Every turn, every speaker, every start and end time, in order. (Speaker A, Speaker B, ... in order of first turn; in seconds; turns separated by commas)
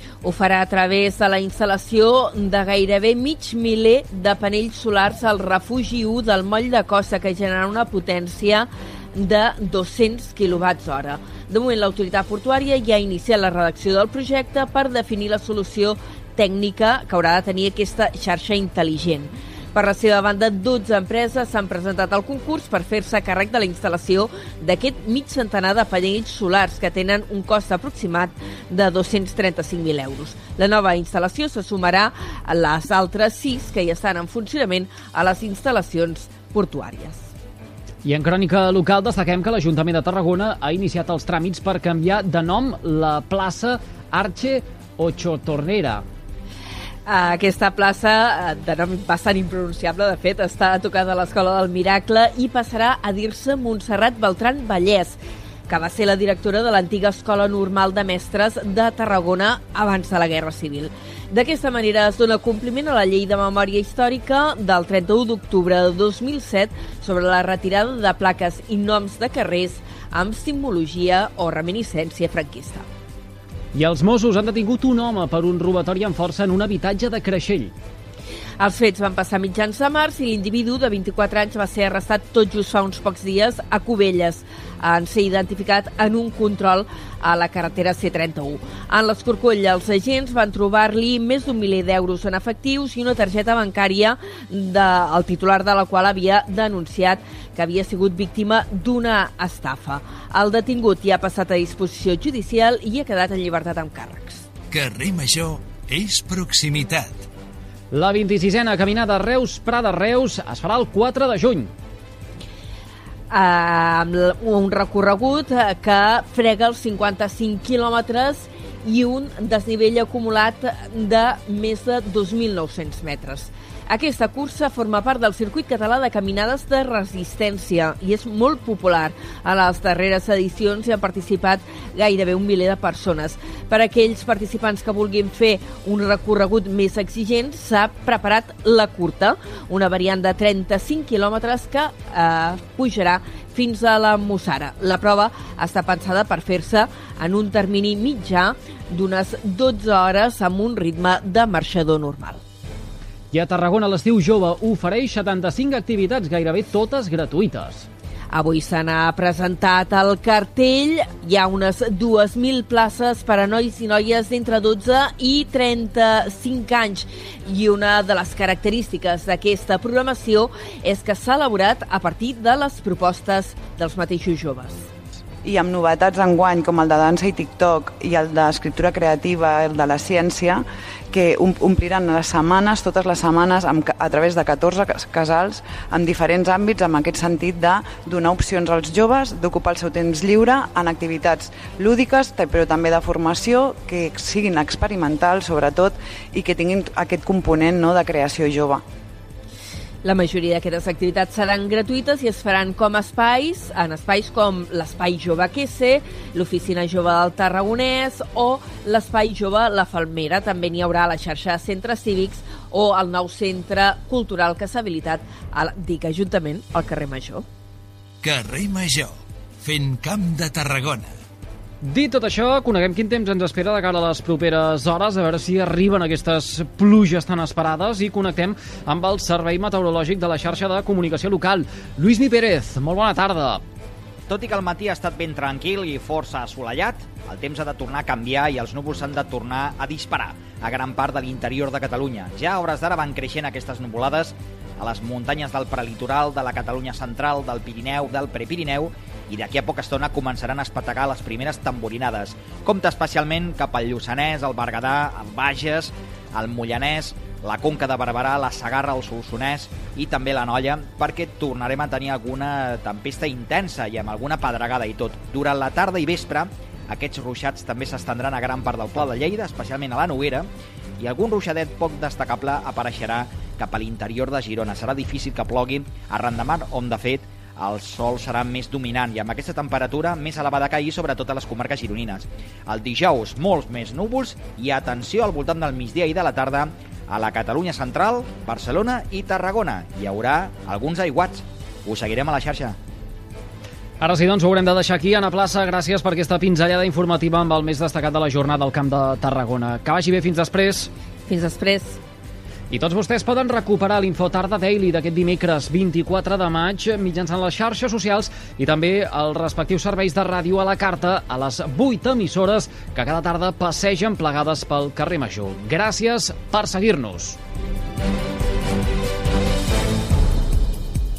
Speaker A: 0.2-37.3, Speaker B: 38.0-46.0, Speaker A: 47.1-72.9, Speaker B: 73.7-77.7, Speaker A: 78.6-104.5, Speaker C: 104.7-107.3, Speaker B: 107.9-111.7, Speaker A: 113.3-152.4, Speaker B: 153.3-157.9, Speaker A: 158.3-174.9, Speaker D: 175.4-198.8, Speaker A: 200.0-217.4, Speaker C: 218.2-221.1, Speaker B: 221.8-233.6, Speaker E: 234.3-270.5, Speaker E: 271.0-292.8, Speaker B: 294.0-300.9, Speaker A: 301.3-302.0, Speaker B: 302.7-317.4